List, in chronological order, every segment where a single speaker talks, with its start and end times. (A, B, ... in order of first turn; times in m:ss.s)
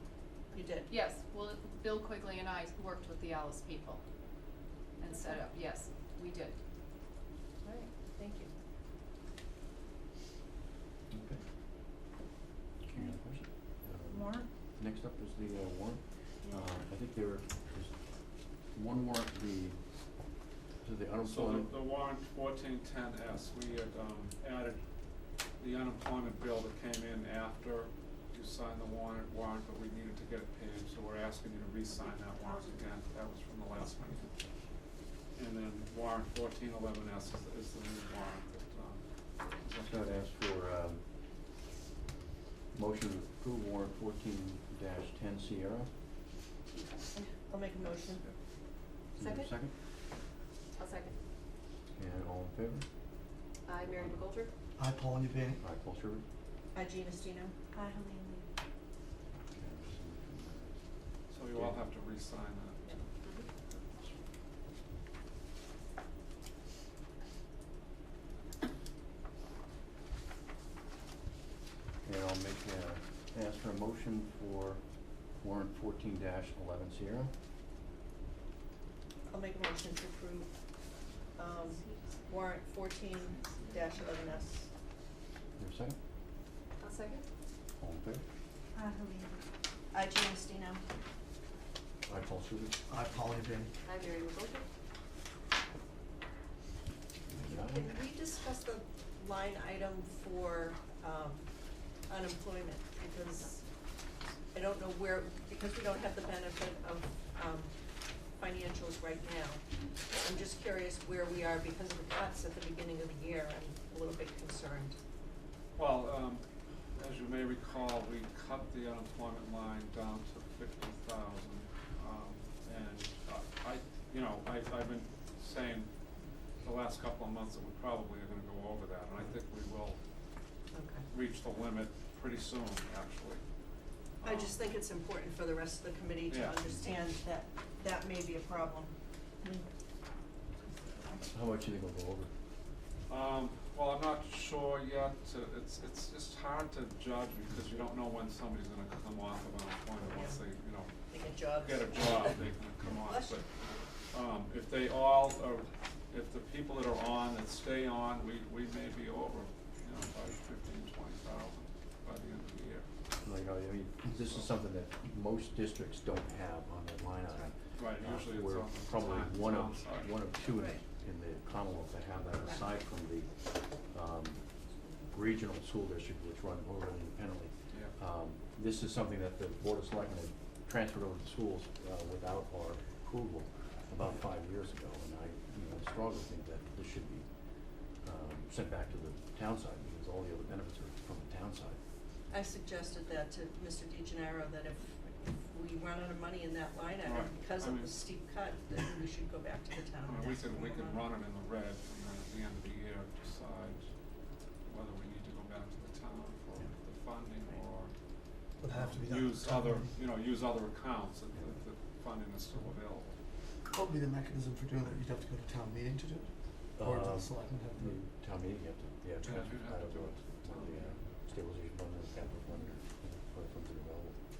0:00.5-0:00.9 A
0:00.9-0:04.0 B
0:05.0-0:06.5 B
0:05.1-0:05.4 A
0:07.6-0:08.5 A
0:11.1-0:11.4 C
0:12.8-0:17.9 C
0:14.1-0:14.4 B
0:18.7-0:19.8 C
0:20.8-0:21.7 C
0:21.2-0:24.8 D
0:25.6-0:34.4 D
0:35.4-0:40.2 D
0:39.8-0:41.0 C
0:42.7-0:45.9 C
0:47.4-0:48.2 A
0:47.8-0:48.3 D
0:49.2-0:49.7 C
0:49.2-0:49.5 B
0:50.8-0:51.2 B
0:52.0-0:52.8 C
0:53.6-0:54.5 B
0:53.9-0:54.2 C
0:54.8-0:55.6 E
0:55.6-0:56.2 C
0:56.7-0:57.5 A
0:57.7-0:58.4 B
0:59.5-1:00.7 C
1:01.3-1:04.2 D
1:01.5-1:01.8 C
1:03.2-1:03.5 B
1:12.0-1:14.8 C
1:15.4-1:17.3 C
1:19.3-1:20.5 A
1:21.4-1:24.7 A
1:21.7-1:22.2 B
1:25.6-1:26.0 C
1:26.8-1:27.2 B
1:27.8-1:28.2 C
1:28.7-1:29.4 B
1:29.9-1:30.8 A
1:32.0-1:32.8 C
1:32.9-1:33.7 E
1:33.8-1:34.6 B
1:37.3-1:37.9 C
1:37.5-1:41.4 A
1:42.1-1:43.6 A
1:44.5-1:47.7 A
1:48.4-1:55.0 A
1:55.8-1:56.4 D
1:57.0-2:05.9 D
2:06.6-2:10.0 D
2:10.7-2:11.0 A
2:11.1-2:13.4 D
2:14.2-2:19.6 A
2:14.2-2:14.5 D
2:16.3-2:16.6 D
2:20.6-2:21.2 A
2:21.2-2:22.3 C
2:23.1-2:30.9 D
2:30.0-2:30.4 A
2:31.1-2:32.5 A
2:31.5-2:33.4 D
2:33.0-2:33.7 A
2:34.1-2:42.8 D
2:43.2-2:54.4 C
2:44.1-2:44.5 D
2:47.8-2:50.2 D
2:50.5-2:50.8 A
2:55.1-3:07.2 C
3:08.0-3:11.8 C
3:12.3-3:21.1 A
3:17.0-3:18.0 D
3:20.0-3:23.9 D
3:24.6-3:27.9 D
3:28.6-3:30.0 E
3:28.7-3:33.2 D
3:33.7-3:38.0 E
3:36.8-3:44.2 C
3:39.2-3:41.0 D